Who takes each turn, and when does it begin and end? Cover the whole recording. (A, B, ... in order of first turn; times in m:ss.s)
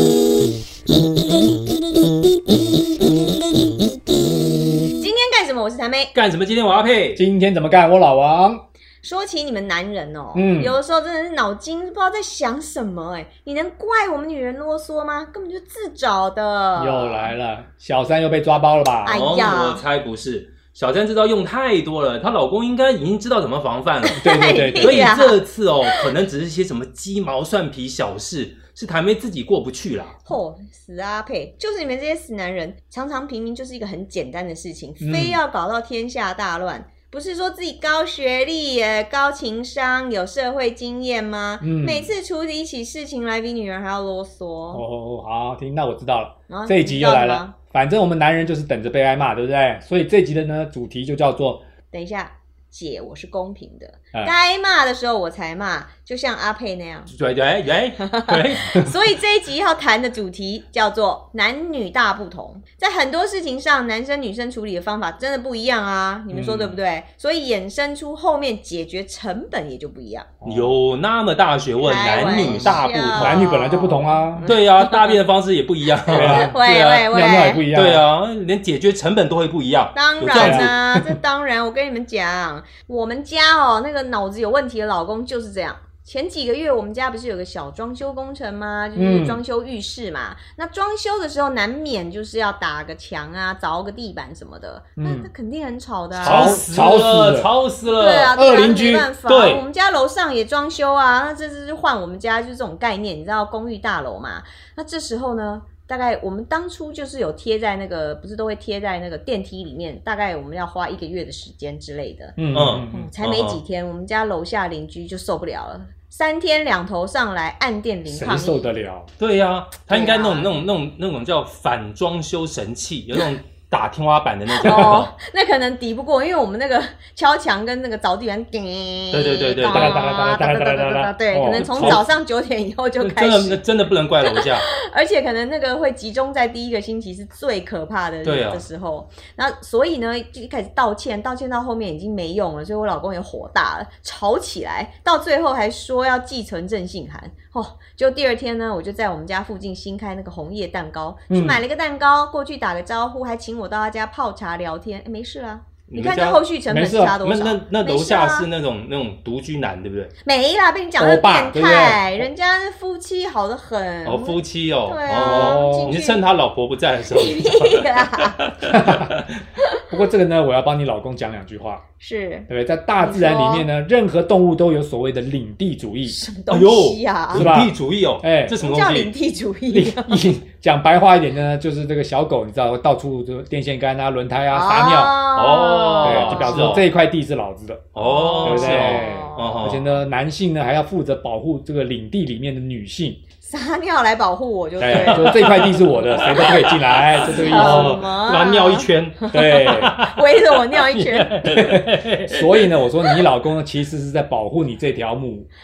0:05.0-0:06.1 A
0:06.1-0:07.2 B
0:07.2-0:08.6 C
0:09.0-0:17.3 A
0:10.3-0:10.8 C
0:16.8-0:19.2 C
0:19.0-0:19.8 A
0:19.1-0:24.2 B
0:24.1-0:26.0 A
0:24.2-0:25.1 C
0:24.8-0:30.2 B
0:30.2-0:44.8 A
0:35.0-0:35.4 C
0:41.6-0:42.1 C
0:44.7-0:51.6 C
0:46.5-0:47.6 A
0:51.9-0:57.1 A
0:57.1-0:59.0 B
0:58.0-1:10.3 A
1:06.3-1:06.8 C
1:10.4-1:10.8 C
1:10.4-1:13.5 B
1:11.8-1:15.2 A
1:12.3-1:14.5 C
1:14.4-1:17.1 B
1:16.1-1:16.6 C
1:16.2-1:17.6 A
1:17.1-1:18.0 C
1:17.7-1:20.9 B
1:19.9-1:36.7 A
1:20.3-1:20.7 C
1:29.0-1:29.4 C
1:35.0-1:35.3 C
1:36.2-1:37.5 C
1:36.2-1:38.4 B
1:37.9-1:52.4 A
1:38.3-1:39.1 C
1:39.3-1:39.6 B
1:52.4-1:53.1 C
1:52.5-1:53.6 B
1:52.9-1:58.7 A
1:58.1-1:59.1 C
1:59.2-2:05.1 B
1:59.9-2:00.6 A
2:04.5-2:13.6 A
2:09.1-2:10.0 B
2:09.7-2:12.0 C
2:11.5-2:12.1 B
2:13.0-2:14.7 B
2:14.2-2:38.5 A
2:18.2-2:18.6 B
2:31.3-2:31.6 C
2:35.9-2:36.4 B
2:36.7-2:37.2 C
2:37.2-2:40.1 B
2:40.2-2:46.2 A
2:41.0-2:42.3 C
2:44.0-2:49.3 B
2:45.2-2:46.0 C
2:47.1-2:48.4 A
2:48.7-2:49.1 C
2:49.9-2:51.8 C
2:52.0-2:52.5 A
2:52.5-2:56.2 C
2:53.0-2:53.7 A
2:56.1-2:57.5 A
2:56.5-2:59.1 B
2:57.3-2:58.6 C
2:58.6-3:00.3 A
2:59.7-3:05.2 C
3:04.5-3:06.7 A
3:05.4-3:06.9 B
3:06.0-3:07.9 C
3:07.9-3:10.0 B
3:08.0-3:09.7 A
3:08.4-3:13.2 C
3:13.4-3:16.5 A
3:14.8-3:18.1 C
3:14.9-3:22.8 B
3:17.3-3:21.4 A
3:19.3-3:19.9 C
3:21.5-3:25.5 C